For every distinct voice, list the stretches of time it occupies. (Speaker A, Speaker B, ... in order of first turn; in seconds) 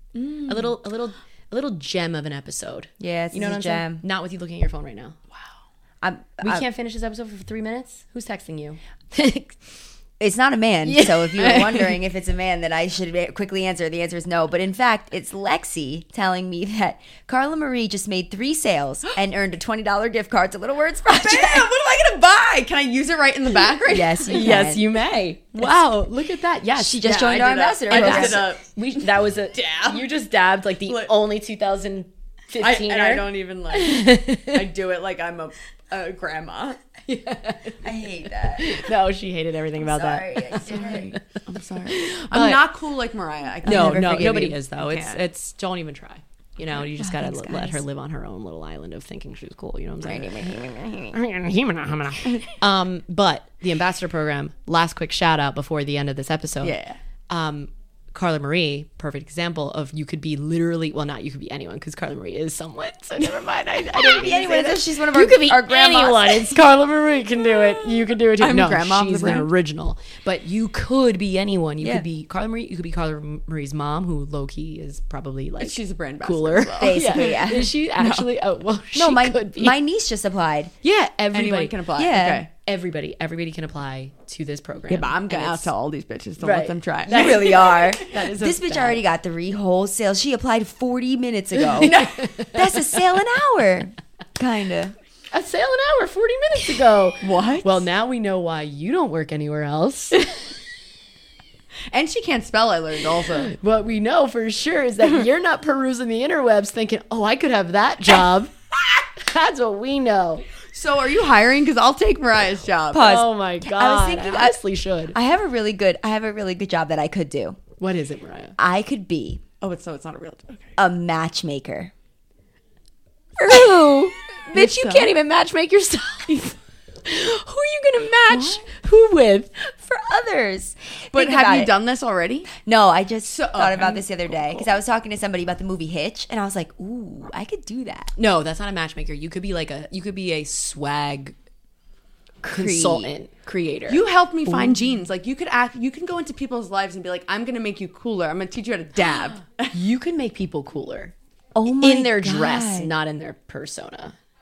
Speaker A: 0.2-5.2, 6.4-9.6, 10.8-11.9, 24.3-27.3, 27.9-34.6, 37.1-41.2, 41.9-42.7, 43.6-56.8, 57.3-79.8, 80.8-81.8, 82.6-85.7, 86.4-89.0, 91.6-93.0, 95.3-100.3, 103.4-110.4, 113.0-115.2, 117.8-118.6, 123.4-129.7, 138.2-141.3, 142.4-144.0, 149.7-151.1, 151.7-154.2
Speaker B: 3.0-4.0, 6.0-6.6, 10.2-21.7, 23.9-24.8, 26.8-28.5, 37.8-38.9, 39.8-41.1, 43.6-44.6, 47.0-47.8, 50.0-51.2, 63.9-66.6, 76.8-77.7, 78.9-80.7, 82.0-82.5, 87.1-95.0, 112.9-114.6, 115.1-117.6, 118.6-119.4, 120.8-121.9, 129.8-131.7, 132.6-138.2, 142.4-143.1, 144.5-144.8, 151.6-152.9
Speaker C: 21.1-24.7, 27.0-30.1, 32.6-36.8, 40.6-45.2, 56.6-57.0, 68.4-69.5, 75.6-78.2, 81.3-82.5, 84.9-88.0, 91.8-92.3, 97.2-97.8, 101.9-103.5, 110.7-113.2, 119.6-120.7, 124.6-125.1, 128.3-128.6, 131.1-132.5, 133.2-134.7, 143.9-149.7